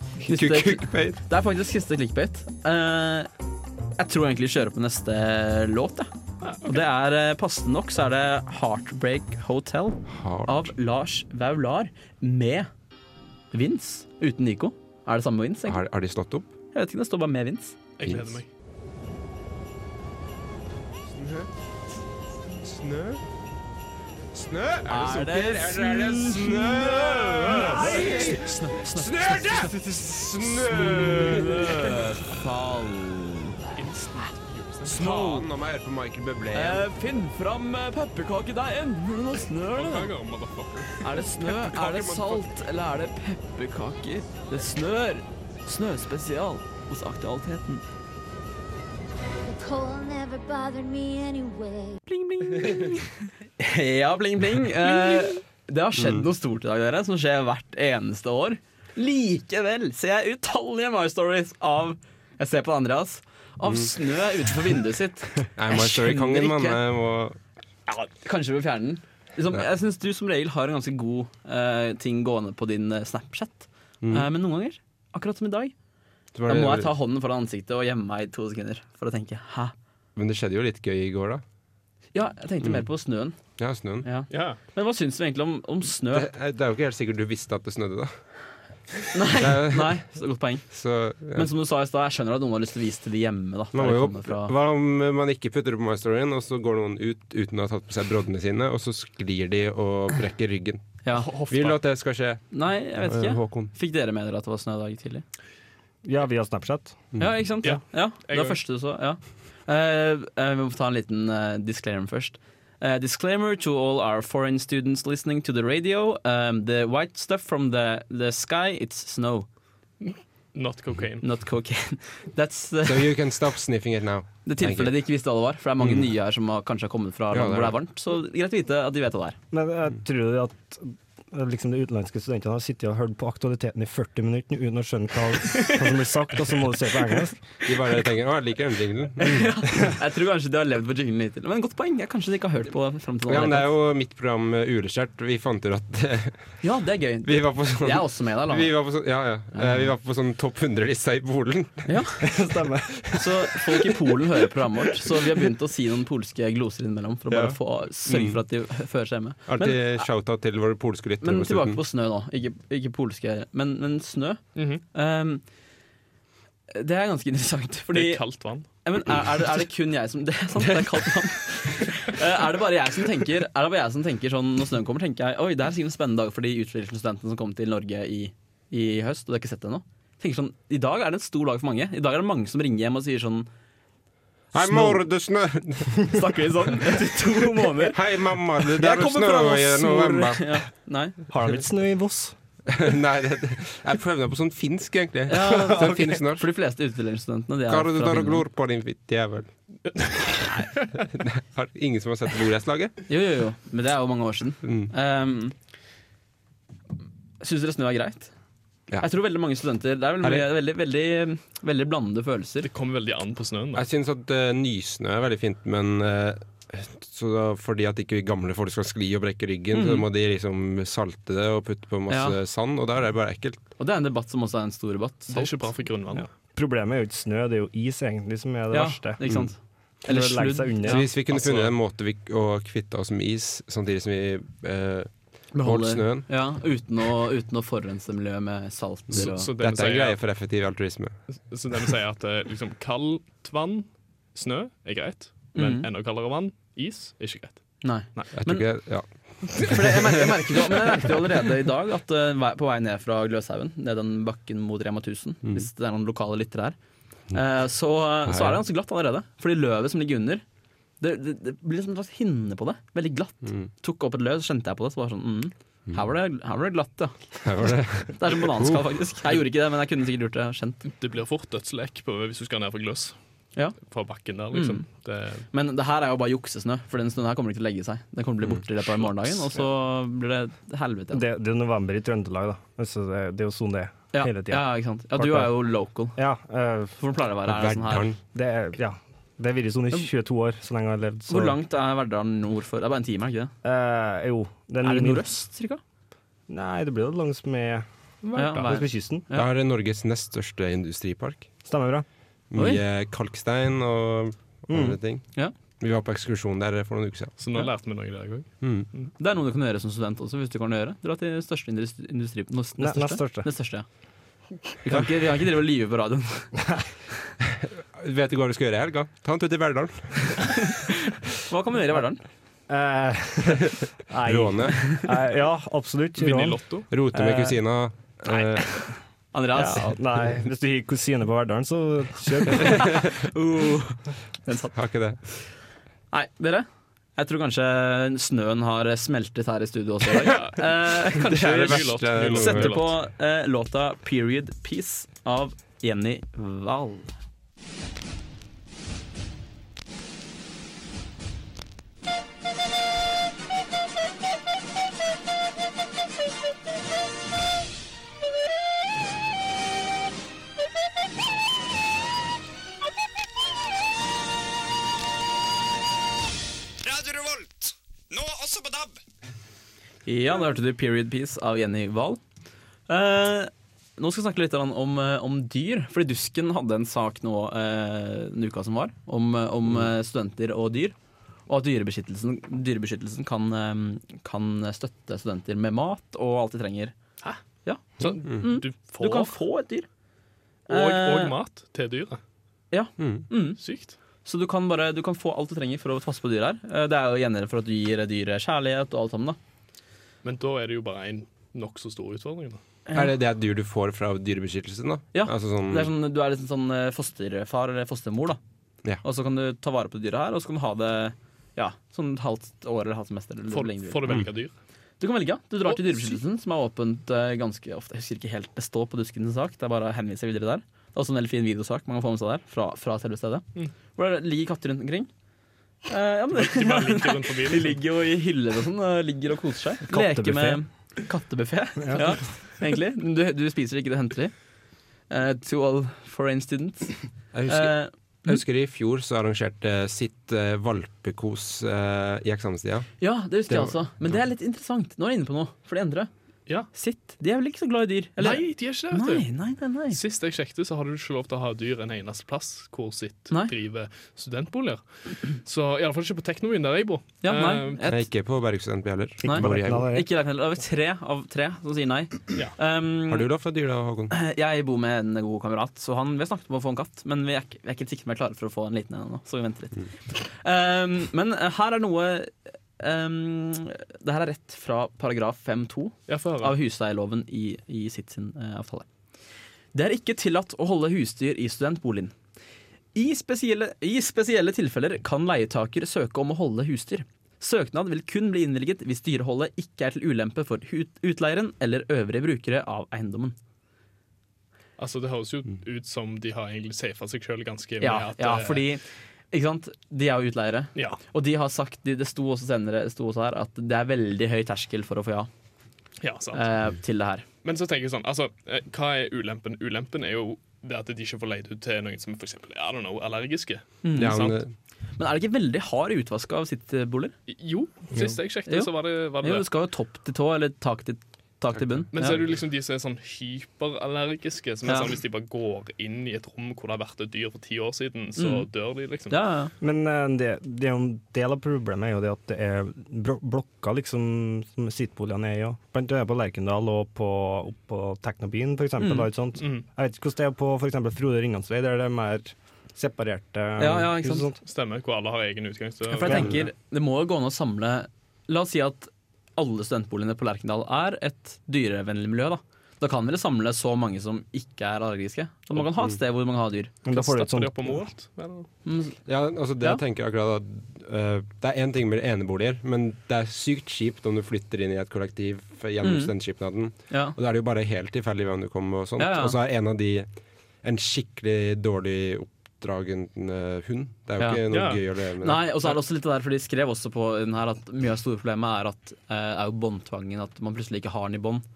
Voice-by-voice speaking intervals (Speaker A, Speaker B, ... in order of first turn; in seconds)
Speaker A: 0.2-1.2, 10.1-10.7, 15.7-16.5, 18.0-18.4, 21.1-21.5, 22.6-23.2, 24.3-32.0, 34.8-36.9, 41.5-42.5, 56.0-56.3, 65.5-67.4, 74.0-74.3, 76.3-76.9, 80.2-81.4, 83.6-84.1, 86.1-88.1, 89.3-90.0, 90.7-91.5, 93.7-100.9, 101.5-103.7, 122.8-125.0, 125.8-126.1, 127.3-127.8, 137.6-139.5, 143.3-146.5, 147.2-152.0, 157.3-158.4, 159.5-161.8, 184.5-186.1, 187.8-190.6, 192.7-196.5, 197.7-199.5, 200.9-203.0, 204.6-204.9, 210.2-210.5, 213.7-223.6, 230.8-236.3, 239.1-241.2, 248.3-251.1, 258.3-258.6, 267.4-268.8, 287.5-288.2, 299.3-301.5, 302.5-305.3, 305.8-307.3, 308.6-308.9, 317.6-320.8, 324.2-325.0, 326.9-328.9, 334.7-335.2, 340.2-342.8, 393.0-393.3, 402.9-405.9, 437.3-437.7, 438.2-442.9, 443.5-444.2, 457.9-459.9, 463.1-464.1, 514.0-514.5, 546.1-546.4, 559.1-575.5
Speaker B: 0.2-3.3, 4.0-6.1, 6.6-12.7, 13.5-15.8, 16.7-17.8, 24.9-29.8, 30.4-33.8, 34.9-35.5, 36.5-40.1, 41.0-47.8, 52.1-66.8, 67.9-75.7, 76.5-79.7, 82.1-83.4, 84.0-86.3, 89.1-90.7, 91.3-94.5, 101.0-101.3, 102.5-105.2, 107.2-119.5, 121.2-123.1, 124.5-129.4, 135.5-135.9, 139.2-143.7, 146.6-148.7, 149.5-149.8, 151.9-152.3, 153.1-160.1, 161.2-165.4, 166.7-183.5, 184.7-185.0, 186.1-188.0, 188.7-191.2, 195.3-198.4, 203.1-205.6, 207.4-208.3, 209.0-212.7, 219.7-220.1, 222.1-222.4, 223.8-225.7, 228.7-231.1, 235.5-239.5, 245.6-245.9, 247.8-248.7, 249.6-256.8, 257.3-260.4, 261.0-270.8, 274.5-274.8, 275.5-281.2, 284.1-286.2, 287.0-288.1, 291.3-293.5, 294.8-295.8, 298.4-299.5, 302.6-302.8, 309.2-313.9, 314.8-316.6, 320.6-322.2, 324.8-325.1, 328.7-330.0, 332.6-334.7, 336.1-347.1, 370.1-372.2, 372.9-380.9, 381.5-386.9, 387.6-389.9, 390.7-391.4, 392.7-393.6, 394.2-399.4, 405.1-408.4, 409.0-414.2, 415.0-423.4, 423.9-425.1, 425.9-434.3, 435.1-438.4, 443.0-446.1, 446.7-450.0, 457.2-458.1, 459.2-463.3, 464.1-478.9, 479.7-482.1, 482.9-493.4, 497.8-505.3, 506.3-507.2, 513.8-514.3, 515.0-517.1, 518.5-522.2, 524.7-525.0, 528.2-528.5, 529.1-529.5, 538.8-539.1, 543.6-544.3, 545.9-556.7, 558.7-559.0, 565.8-566.1, 566.9-567.2, 569.0-569.4, 574.2-581.5
Speaker C: 6.4-6.8, 18.0-18.5, 33.8-35.0, 39.7-41.1, 84.3-84.6, 101.1-101.8, 107.6-108.6, 120.0-121.2, 164.6-164.8, 167.9-168.7, 199.9-200.5, 212.6-213.8, 225.3-226.3, 231.3-231.7, 239.1-240.2, 241.3-248.3, 270.9-273.2, 273.8-275.5, 298.2-298.8, 307.4-309.1, 326.2-326.9, 340.3-340.6, 341.2-342.9, 388.0-389.4, 390.7-392.2, 393.6-394.0, 400.2-402.6, 413.5-414.5, 415.7-416.2, 426.3-427.8, 448.2-449.3, 449.9-457.8, 476.1-476.6, 494.8-498.7, 506.0-506.5, 507.4-514.4, 517.3-519.5, 521.9-529.2, 539.4-539.7, 544.4-546.3, 556.9-558.5, 574.5-574.8
Speaker D: 49.4-52.0
Speaker E: 106.0-107.0, 129.5-137.6, 152.2-153.2, 191.3-192.4, 226.1-229.3, 230.1-231.0, 281.1-285.6, 286.1-287.0, 288.3-291.6, 293.6-295.3, 296.5-299.3, 301.6-302.1, 304.7-305.0, 312.8-313.5, 322.7-327.6, 329.5-333.0, 429.9-430.6, 431.8-432.2, 459.2-460.1, 529.6-544.4, 556.9-557.9